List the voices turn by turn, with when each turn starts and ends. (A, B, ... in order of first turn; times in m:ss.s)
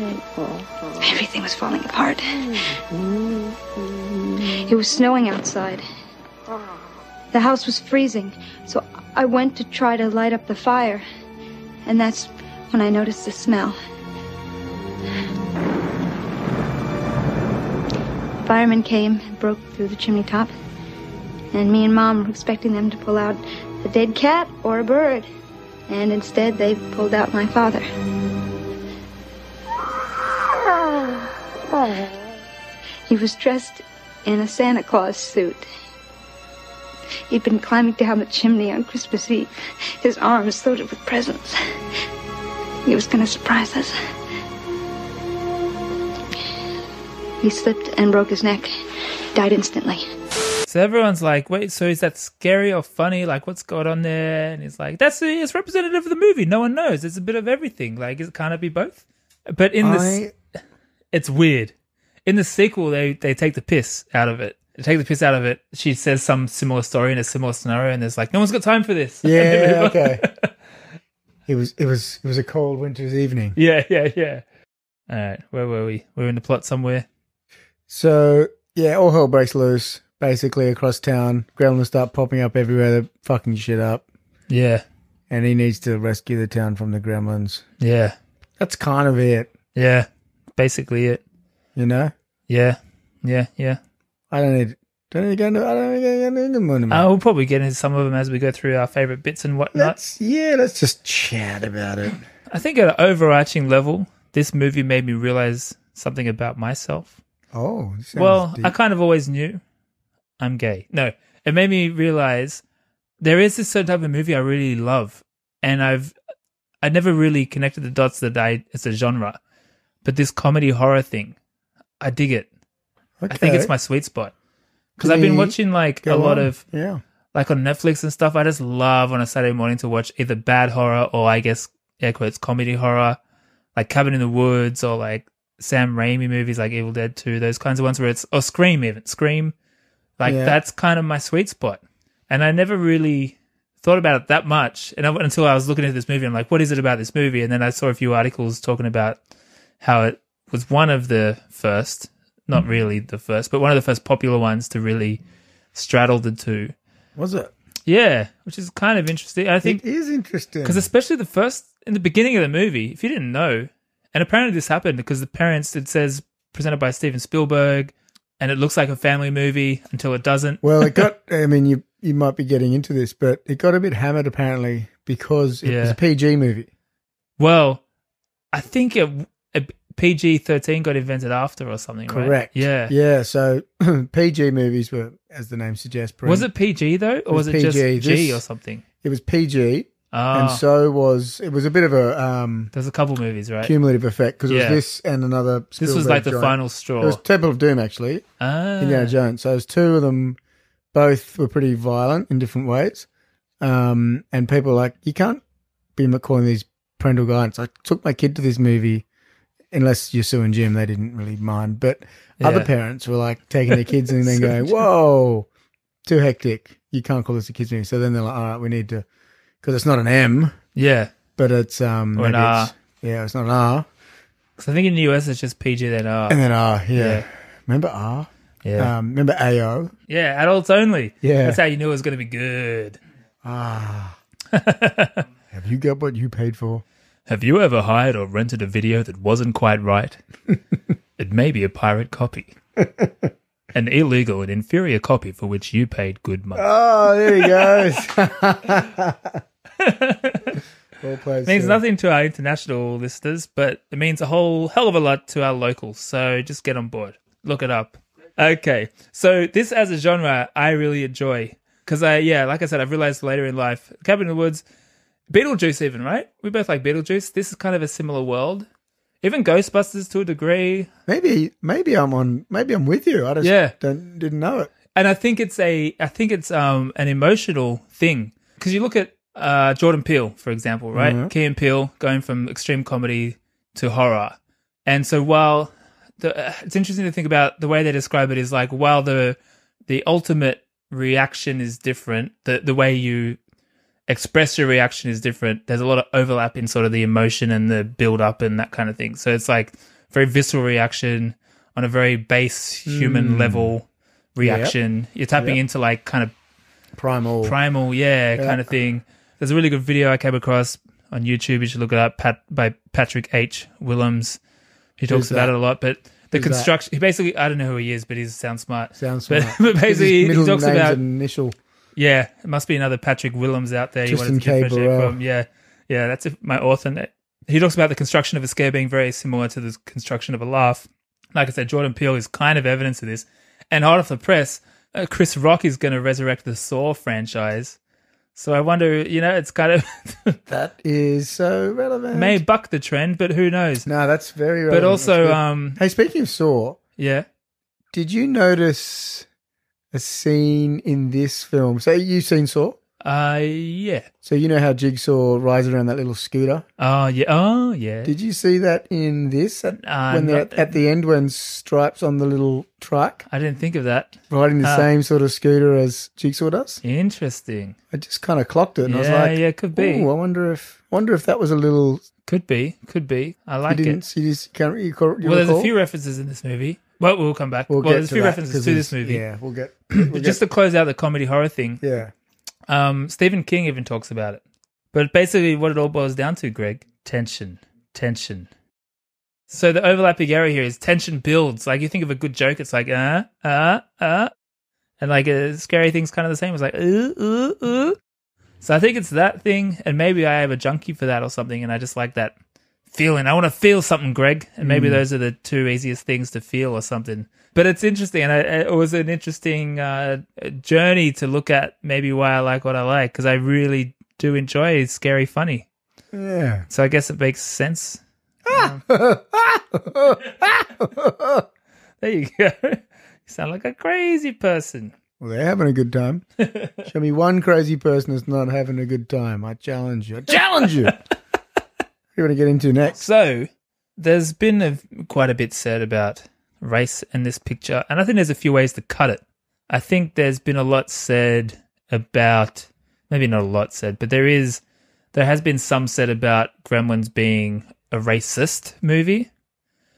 0:01.0-0:02.5 A
0:04.4-0:05.8 A
0:07.3-0:11.0 A
0:11.8-0:13.8 A
0:18.4-0:20.5 A
0:21.5-0:25.3 A
0:25.9-0:27.9 A
0:33.1-0:35.7 A
0:37.3-0:41.6 A
0:42.9-0:44.0 A
0:47.4-0:48.7 A
0:49.3-0:50.1 A
0:50.7-1:00.2 B
0:59.8-1:00.3 C
1:01.1-1:01.7 B
1:02.3-1:10.5 B
1:09.2-1:10.2 C
1:11.5-1:13.6 C
1:13.6-1:14.4 B
1:15.1-1:17.1 B
1:17.9-1:24.0 C
1:24.5-1:24.8 B
1:25.3-1:27.6 C
1:27.8-1:28.2 B
1:28.6-1:29.5 C
1:29.8-1:31.2 B
1:31.8-1:32.1 C
1:32.5-1:33.8 B
1:34.3-1:37.1 C
1:36.9-1:40.0 B
1:39.7-1:42.2 C
1:42.5-1:47.2 B
1:47.5-1:48.8 C
1:48.2-1:49.6 B
1:50.4-1:52.6 B
1:53.2-1:56.2 B
1:56.8-1:59.4 B
2:00.0-2:01.4 B
2:02.0-2:02.5 B
2:03.2-2:03.7 C
2:03.3-2:04.3 B
2:05.0-2:07.0 C
2:05.0-2:06.6 B
2:07.3-2:13.2 B
2:13.8-2:19.5 B
2:20.2-2:29.2 B
2:20.2-2:20.6 C
2:29.8-2:35.2 B
2:35.7-2:36.7 B
2:37.2-2:37.5 C
2:37.9-2:39.8 B
2:39.6-2:40.9 C
2:40.6-2:51.1 B
2:50.6-2:56.7 C
2:55.6-2:56.0 B
2:57.4-2:57.8 B
2:58.5-3:02.9 B
3:02.1-3:06.5 C
3:06.2-3:08.8 B
3:07.3-3:08.4 C
3:09.0-3:12.7 C
3:10.1-3:10.6 B
3:12.7-3:13.8 B
3:13.6-3:18.2 C
3:14.5-3:14.8 B
3:15.8-3:17.2 B
3:18.4-3:19.2 B
3:18.8-3:20.4 C
3:20.9-3:23.1 C
3:23.6-3:25.4 C
3:26.0-3:29.0 C
3:29.7-3:35.5 C
3:32.4-3:32.7 B
3:33.7-3:34.8 B
3:36.1-3:39.0 C
3:39.6-3:40.6 C
3:40.8-3:41.1 B
3:41.4-3:43.9 C
3:42.2-3:42.7 B
3:44.6-3:46.4 B
3:46.3-3:49.9 C
3:47.0-3:47.2 B
3:48.6-3:48.9 B
3:50.1-3:53.0 B
3:51.2-3:51.6 C
3:53.4-3:54.2 C
3:54.5-3:55.2 B
3:55.5-3:56.8 C
3:57.3-4:00.2 B
4:01.2-4:02.5 B
4:02.8-4:03.3 C
4:03.7-4:06.7 B
4:06.6-4:09.4 C
4:07.2-4:07.9 B
4:09.8-4:10.6 B
4:11.0-4:11.8 C
4:11.4-4:24.6 B
4:25.3-4:28.7 B
4:29.2-4:30.9 B
4:31.1-4:34.7 C
4:33.4-4:33.8 B
4:34.9-4:49.4 B
4:40.9-4:41.3 C
4:49.9-4:53.4 B
4:54.1-5:06.3 B
5:02.9-5:03.7 C
5:04.4-5:04.8 C
5:07.0-5:07.6 C
5:07.4-5:14.4 B
5:08.4-5:08.7 C
5:15.0-5:21.0 B
5:15.1-5:15.5 C
5:16.3-5:16.7 C
5:19.0-5:21.6 C
5:22.0-5:37.8 B
5:24.1-5:25.2 C
5:38.4-5:40.4 B
5:40.5-5:42.4 C
5:42.1-5:43.9 B
5:43.9-5:46.8 C
5:44.7-5:45.8 B
5:47.0-5:47.3 B
5:47.9-5:49.3 C
5:49.9-5:52.8 C
5:53.0-5:54.1 B
5:54.2-5:56.7 C
5:56.8-5:58.1 B
5:58.0-6:03.2 C
5:59.8-6:00.8 B
6:03.3-6:04.9 B
6:04.3-6:06.8 C
6:06.8-6:07.8 B
6:07.9-6:12.1 C
6:08.8-6:10.1 B
6:12.3-6:14.0 B
6:13.7-6:15.7 C
6:15.2-6:19.2 B
6:17.7-6:20.4 C
6:20.0-6:21.8 B
6:21.8-6:22.1 C
6:22.7-6:24.4 B
6:24.9-6:28.5 B
6:29.5-6:34.3 B
6:35.0-6:38.0 B
6:38.6-6:42.3 B
6:42.9-6:55.7 B
6:44.6-6:45.0 C
6:56.1-6:56.7 C
6:56.7-6:58.8 B
6:58.5-7:01.5 C
7:02.0-7:04.9 B
7:05.2-7:06.2 C
7:06.4-7:06.9 B
7:06.8-7:11.0 C
7:12.2-7:13.1 C
7:12.9-7:24.6 B
7:25.1-7:29.3 B